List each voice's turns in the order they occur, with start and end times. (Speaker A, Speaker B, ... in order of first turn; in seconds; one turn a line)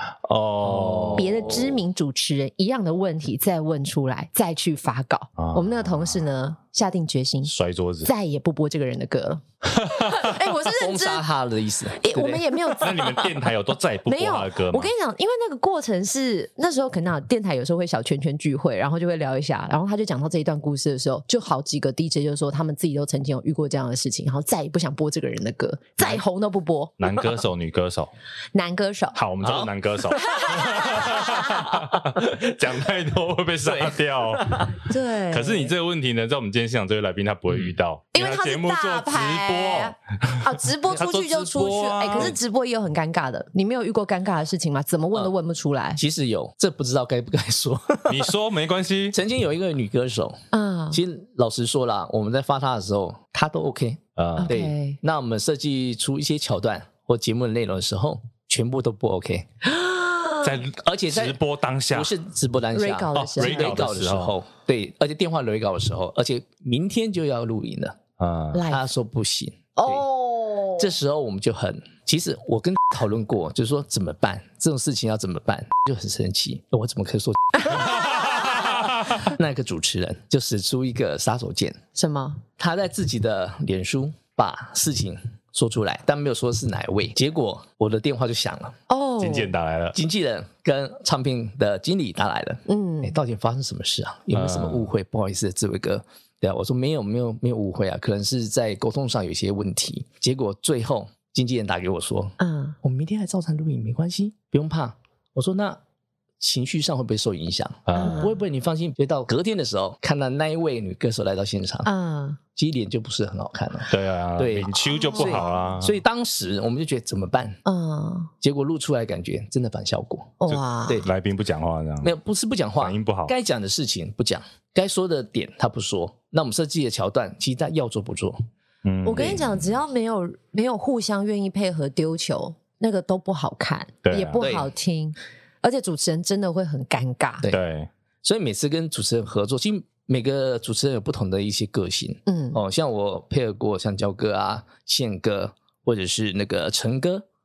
Speaker A: 0.2-1.5
Speaker B: 0.6-1.7
Speaker C: 1.1-7.5
Speaker A: 5.4-6.2
Speaker A: 7.5-8.1
Speaker C: 8.1-11.3
Speaker A: 9.8-10.2
Speaker B: 10.6-12.8
Speaker C: 11.9-13.3
Speaker A: 12.8-14.9
Speaker C: 14.1-26.9
Speaker A: 27.0-28.1
Speaker C: 28.5-29.2
Speaker A: 29.1-42.4
Speaker B: 29.4-29.7
Speaker C: 30.1-31.7
Speaker B: 31.5-32.4
Speaker B: 33.6-34.7
Speaker C: 34.9-35.7
Speaker C: 38.1-46.0
Speaker B: 46.0-48.3
Speaker A: 48.1-49.2
Speaker B: 49.1-50.4
Speaker C: 50.5-51.0
Speaker B: 50.9-59.5
Speaker A: 54.2-54.5
Speaker C: 54.4-55.0
Speaker C: 59.6-60.6
Speaker A: 60.4-62.1
Speaker B: 60.8-61.4
Speaker B: 61.9-68.0
Speaker C: 62.7-63.8
Speaker A: 63.1-64.3
Speaker A: 68.2-68.6
Speaker C: 68.5-68.9
Speaker B: 68.6-70.1
Speaker C: 69.8-70.9
Speaker B: 70.8-81.8
Speaker C: 77.6-78.8
Speaker A: 77.9-79.0
Speaker C: 82.0-82.4
Speaker B: 82.6-88.8
Speaker C: 88.9-89.5
Speaker A: 89.2-90.0
Speaker B: 89.9-105.8
Speaker C: 92.7-93.2
Speaker A: 94.3-94.9
Speaker C: 102.4-102.8
Speaker B: 106.4-111.9
Speaker A: 107.9-108.2
Speaker C: 108.0-108.4
Speaker C: 111.8-112.4
Speaker B: 112.6-117.6
Speaker A: 113.9-116.0
Speaker C: 114.9-115.7
Speaker C: 117.7-118.3
Speaker B: 118.4-120.4
Speaker C: 120.4-121.0
Speaker A: 120.5-122.1
Speaker B: 122.0-128.4
Speaker A: 122.8-123.3
Speaker A: 128.8-129.4
Speaker C: 129.0-137.5
Speaker B: 129.2-129.4
Speaker A: 134.1-134.4
Speaker B: 134.4-134.7
Speaker A: 137.5-137.9
Speaker B: 138.2-147.2
Speaker C: 142.3-142.6